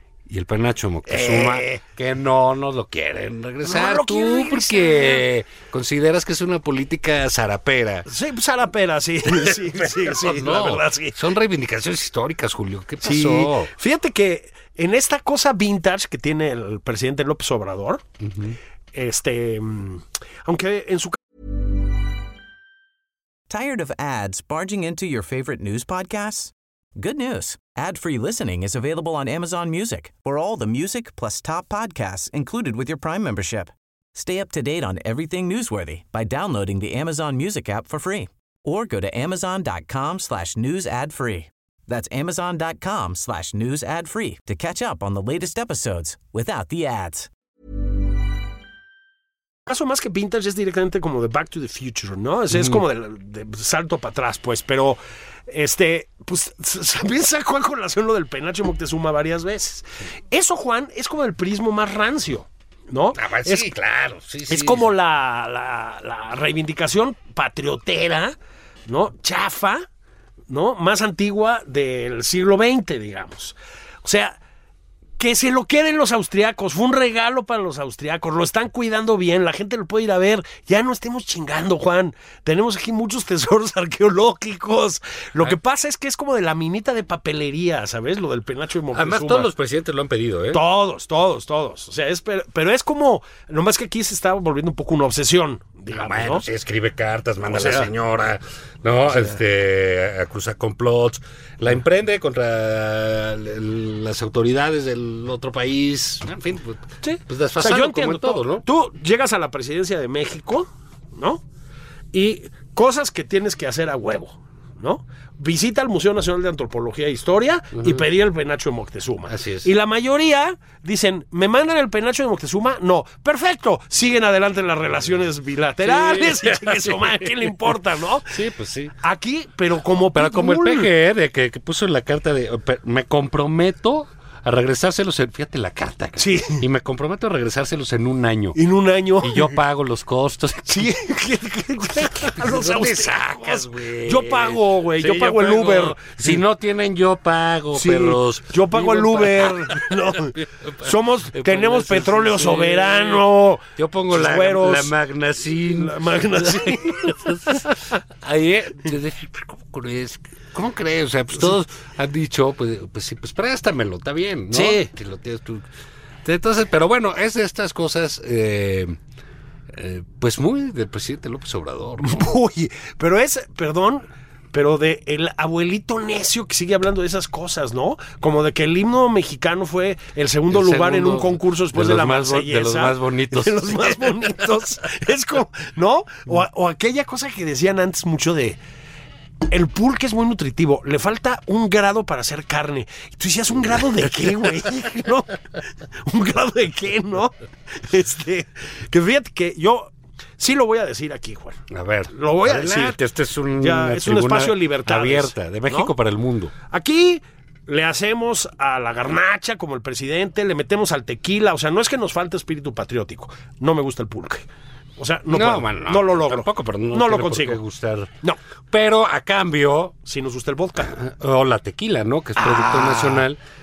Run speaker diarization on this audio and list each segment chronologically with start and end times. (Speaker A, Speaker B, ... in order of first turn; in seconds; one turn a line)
Speaker A: 0.3-8.1
Speaker B: 1.1-1.8
Speaker B: 3.6-5.2
Speaker B: 8.1-11.2
Speaker A: 9.2-13.7
Speaker B: 13.0-18.0
Speaker A: 18.2-18.6
Speaker B: 18.9-21.2
Speaker C: 23.5-47.3
Speaker B: 49.7-63.7
Speaker A: 52.5-52.8
Speaker A: 63.1-64.9
Speaker B: 64.5-68.3
Speaker B: 68.9-69.8
Speaker B: 70.5-74.4
Speaker B: 75.2-89.5
Speaker A: 88.9-90.6
Speaker B: 90.5-96.4
Speaker A: 95.9-108.6
Speaker B: 97.5-97.9
Speaker B: 107.0-111.4
Speaker B: 112.1-128.3
Speaker A: 117.8-118.0
Speaker A: 119.2-119.7
Speaker A: 125.8-127.7
Speaker A: 128.3-128.9
Speaker B: 129.0-130.9
Speaker A: 130.1-138.6
Speaker B: 136.2-136.6
Speaker B: 138.6-139.6
Speaker A: 139.2-140.9
Speaker B: 140.7-146.4
Speaker A: 142.1-165.7
Speaker B: 147.7-154.9
Speaker B: 155.5-157.8
Speaker B: 164.5-164.9
Speaker A: 166.2-169.0
Speaker A: 169.7-172.2
Speaker B: 172.0-188.6
Speaker A: 180.5-184.5
Speaker B: 189.5-203.0
Speaker A: 201.7-206.5
Speaker B: 203.6-205.9
Speaker B: 206.7-214.4
Speaker B: 215.0-217.6
Speaker A: 215.3-218.1
Speaker A: 218.7-219.9
Speaker B: 220.1-220.9
Speaker A: 220.8-223.4
Speaker B: 222.4-223.3